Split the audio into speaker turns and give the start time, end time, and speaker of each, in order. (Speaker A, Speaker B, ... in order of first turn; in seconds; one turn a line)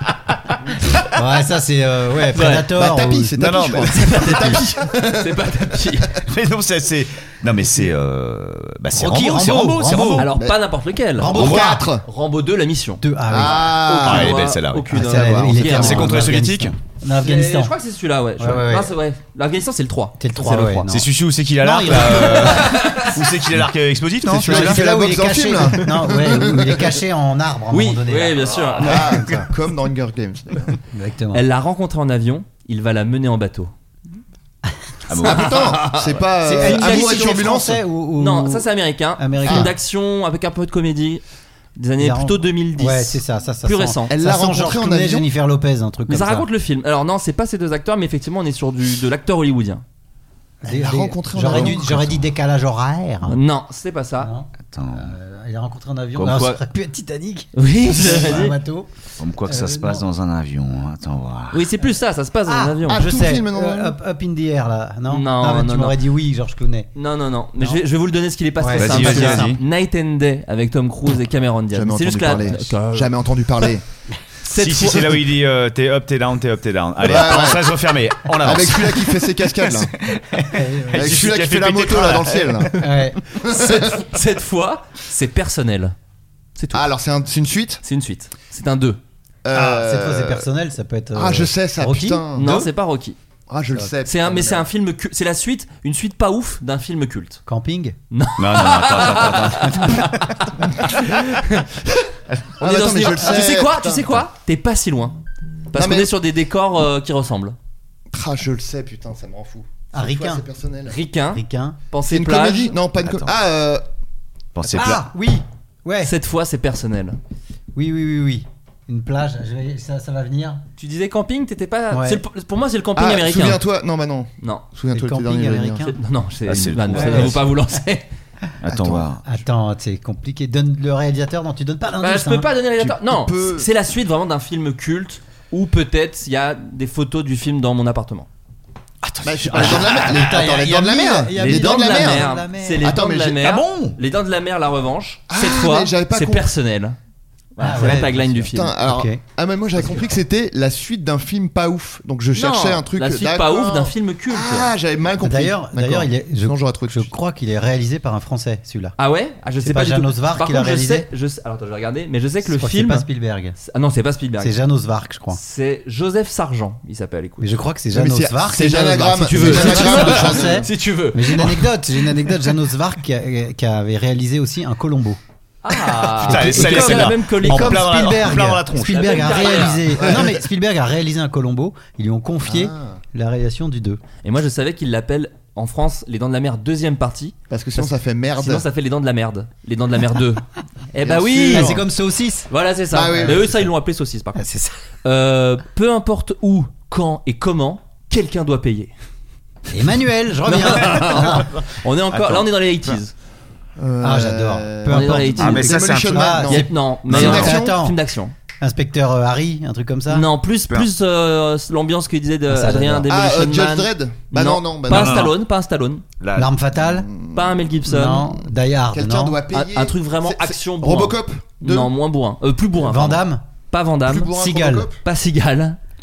Speaker A: 0.7-1.1
Speaker B: 1.1-3.3
Speaker A: 2.3-2.7
Speaker C: 2.7-5.6
Speaker D: 3.4-4.5
Speaker A: 3.9-6.2
Speaker D: 6.2-10.3
Speaker B: 8.9-10.3
Speaker A: 10.2-11.4
Speaker C: 10.3-10.6
Speaker B: 11.2-11.9
Speaker C: 11.2-12.0
Speaker D: 11.3-11.8
Speaker A: 12.0-16.2
Speaker B: 13.0-14.0
Speaker C: 13.3-14.4
Speaker D: 14.0-16.7
Speaker B: 14.9-17.7
Speaker A: 17.2-20.9
Speaker B: 18.4-18.9
Speaker B: 20.2-21.1
Speaker D: 20.9-24.9
Speaker B: 21.6-22.8
Speaker A: 22.3-23.1
Speaker C: 24.2-27.0
Speaker B: 24.3-29.5
Speaker A: 27.7-29.1
Speaker C: 28.8-30.8
Speaker B: 30.9-31.4
Speaker A: 31.3-33.7
Speaker D: 35.1-35.5
Speaker C: 35.2-37.8
Speaker A: 35.2-37.3
Speaker B: 36.4-38.7
Speaker A: 38.2-41.2
Speaker B: 39.2-39.7
Speaker C: 39.4-39.7
Speaker A: 41.8-44.1
Speaker B: 42.0-46.5
Speaker C: 44.1-45.3
Speaker A: 46.1-49.8
Speaker B: 50.6-53.4
Speaker C: 50.7-52.1
Speaker A: 53.2-54.3
Speaker B: 54.2-58.9
Speaker D: 54.7-55.1
Speaker A: 56.1-56.6
Speaker A: 57.5-58.5
Speaker D: 59.2-61.7
Speaker B: 59.4-60.0
Speaker A: 61.5-63.0
Speaker B: 62.5-66.9
Speaker C: 62.9-63.9
Speaker A: 65.1-66.0
Speaker A: 66.9-73.1
Speaker B: 68.6-69.5
Speaker D: 68.8-69.6
Speaker C: 71.7-73.8
Speaker A: 74.4-75.2
Speaker D: 74.5-82.6
Speaker C: 77.0-77.7
Speaker C: 78.4-79.9
Speaker B: 80.5-81.1
Speaker C: 81.0-82.8
Speaker B: 82.8-83.2
Speaker C: 83.3-84.0
Speaker A: 83.4-85.9
Speaker A: 86.6-86.9
Speaker C: 86.7-87.8
Speaker A: 87.8-89.0
Speaker C: 89.4-90.4
Speaker B: 89.5-92.7
Speaker C: 91.1-92.6
Speaker A: 92.3-93.2
Speaker C: 93.5-94.7
Speaker A: 94.0-97.4
Speaker B: 97.5-98.0
Speaker A: 98.1-101.7
Speaker D: 98.4-100.4
Speaker C: 102.6-104.2
Speaker A: 102.6-105.1
Speaker A: 105.7-107.5
Speaker C: 105.7-106.1
Speaker C: 108.1-111.0
Speaker B: 109.9-110.4
Speaker A: 110.9-112.7
Speaker B: 111.3-111.8
Speaker C: 112.1-113.8
Speaker D: 113.0-113.3
Speaker D: 114.5-115.0
Speaker B: 114.7-116.1
Speaker A: 116.0-117.2
Speaker B: 117.7-120.6
Speaker A: 120.8-123.6
Speaker B: 121.9-122.2
Speaker C: 123.0-125.9
Speaker B: 124.9-125.9
Speaker A: 125.9-128.1
Speaker D: 126.5-127.4
Speaker B: 126.9-127.4
Speaker D: 128.6-129.2
Speaker C: 128.7-129.0
Speaker B: 129.2-132.5
Speaker A: 132.0-138.3
Speaker C: 132.9-133.7
Speaker D: 139.0-140.0
Speaker C: 139.2-143.4
Speaker B: 139.5-142.9
Speaker A: 139.6-140.0
Speaker A: 141.4-146.9
Speaker D: 143.4-144.0
Speaker C: 145.3-146.5
Speaker A: 147.6-148.7
Speaker B: 147.6-149.2
Speaker C: 148.5-157.1
Speaker A: 152.3-154.7
Speaker B: 155.2-158.9
Speaker A: 159.0-164.6
Speaker B: 159.6-161.1
Speaker B: 162.4-163.6
Speaker B: 164.4-165.4
Speaker A: 165.3-167.5
Speaker B: 167.4-175.2
Speaker C: 167.9-170.7
Speaker A: 169.2-171.7
Speaker A: 175.6-177.9
Speaker D: 176.1-179.4
Speaker B: 176.2-184.0
Speaker A: 178.8-179.9
Speaker C: 180.0-180.3
Speaker C: 182.4-183.0
Speaker A: 184.2-191.8
Speaker C: 187.5-188.7
Speaker C: 191.0-191.8
Speaker B: 191.4-192.5
Speaker A: 192.5-194.5
Speaker C: 192.9-193.6
Speaker B: 193.1-193.4
Speaker B: 194.4-194.7
Speaker A: 195.0-198.9
Speaker B: 199.7-201.5
Speaker A: 200.4-203.1
Speaker D: 202.1-202.5
Speaker C: 203.8-207.8
Speaker B: 204.0-208.0
Speaker A: 204.9-205.8
Speaker D: 205.4-206.4
Speaker A: 206.5-208.3
Speaker D: 207.2-207.5
Speaker B: 208.6-210.3
Speaker A: 210.1-216.0
Speaker B: 212.5-213.1
Speaker C: 213.1-215.3
Speaker D: 214.9-215.3
Speaker D: 216.2-216.5
Speaker B: 216.4-217.1
Speaker C: 216.8-217.7
Speaker A: 217.3-218.3
Speaker B: 217.9-219.4
Speaker C: 218.9-221.9
Speaker A: 219.5-224.3
Speaker B: 222.8-223.4
Speaker C: 224.1-225.0
Speaker B: 224.3-224.9
Speaker A: 225.0-225.8